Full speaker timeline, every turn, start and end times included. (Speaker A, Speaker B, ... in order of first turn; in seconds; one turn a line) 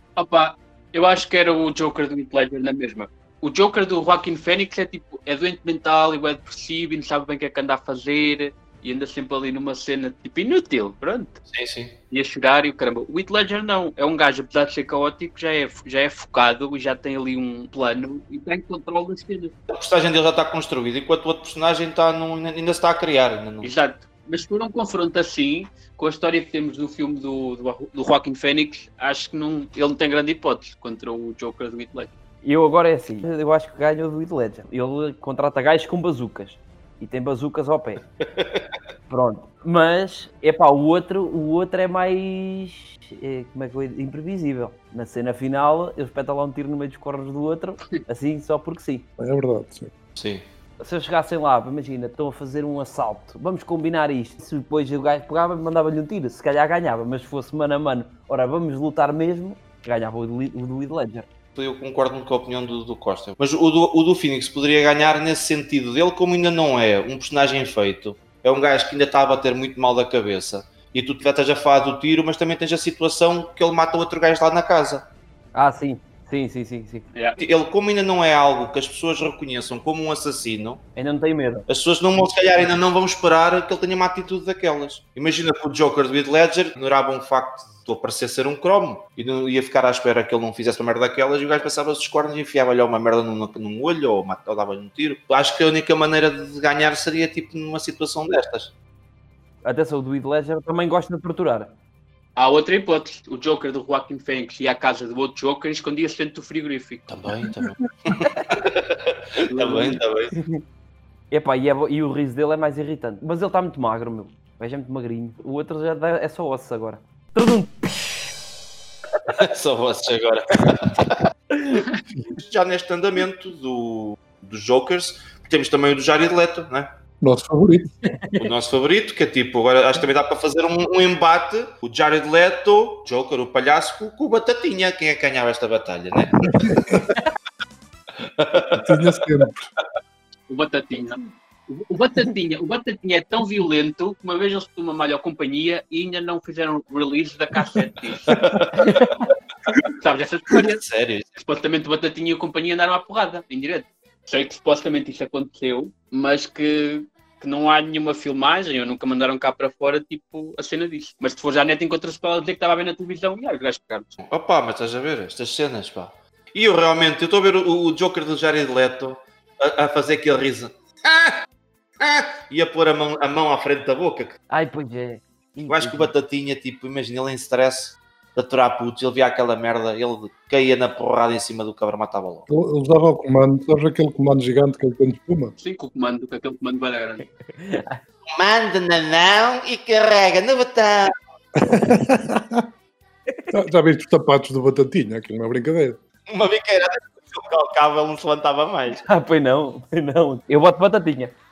Speaker A: 0.2-11.4
Speaker B: 11.5-11.9
Speaker A: 12.1-19.5
Speaker B: 19.7-23.7
Speaker A: 23.6-32.1
Speaker C: 32.4-38.0
Speaker B: 38.4-38.7
Speaker C: 39.1-49.1
Speaker D: 49.2-49.9
Speaker B: 50.2-50.5
Speaker C: 50.8-61.3
Speaker B: 61.6-75.0
Speaker C: 75.5-77.1
Speaker B: 77.4-80.8
Speaker C: 81.0-81.7
Speaker B: 81.7-98.7
Speaker C: 99.6-101.7
Speaker A: 102.4-107.1
Speaker B: 107.1-110.3
Speaker A: 109.5-110.0
Speaker C: 110.3-110.6
Speaker C: 111.3-117.9
Speaker B: 119.3-121.2
Speaker C: 121.5-121.8
Speaker B: 122.3-126.9
Speaker D: 127.2-127.9
Speaker B: 128.4-137.2
Speaker D: 136.4-137.0
Speaker B: 138.4-138.8
Speaker D: 138.7-139.7
Speaker A: 140.5-148.8
Speaker B: 148.3-149.1
Speaker A: 149.9-150.8
Speaker B: 150.8-151.3
Speaker A: 151.4-164.2
Speaker B: 164.3-171.4
Speaker B: 172.0-174.4
Speaker C: 174.5-176.1
Speaker B: 175.7-182.5
Speaker D: 182.5-185.6
Speaker A: 185.6-187.3
Speaker C: 187.5-188.0
Speaker B: 188.3-191.1
Speaker D: 191.6-192.7
Speaker D: 193.5-196.0
Speaker B: 196.3-199.1
Speaker C: 199.0-201.3